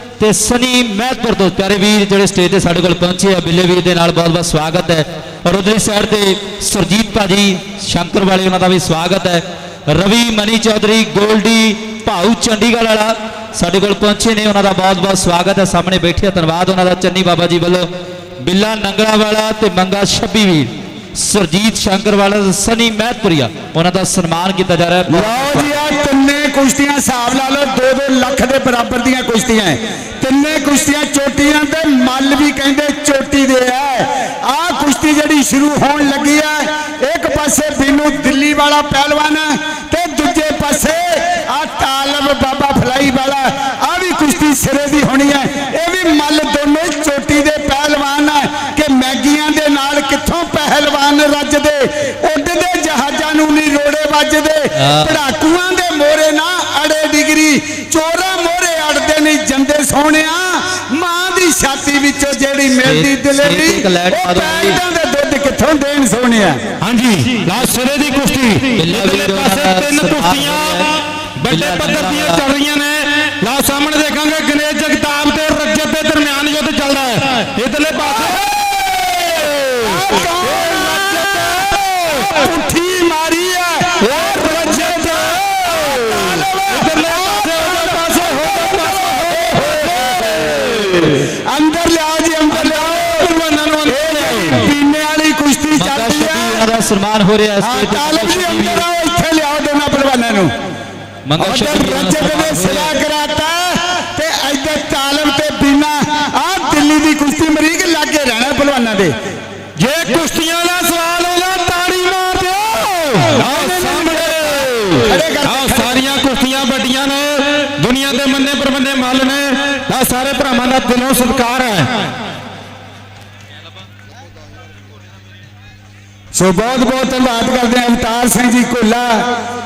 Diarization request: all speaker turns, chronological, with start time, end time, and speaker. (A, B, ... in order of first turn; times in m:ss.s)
0:00.2-0:17.9 A
0:18.4-0:25.8 A
0:25.1-1:06.6 B
0:54.8-0:55.2 A
1:02.8-1:04.8 A
1:06.8-1:22.4 C
1:08.8-1:10.9 A
1:11.5-1:12.4 A
1:19.8-1:33.3 B
1:24.1-1:31.2 C
1:32.5-1:34.7 C
1:33.9-1:36.6 B
1:35.8-1:38.8 A
1:37.6-1:40.5 B
1:41.3-1:43.0 A
1:41.4-1:49.1 B
1:49.8-2:02.1 C
1:53.4-1:54.3 B
1:55.0-1:56.0 B
2:06.4-2:09.3 B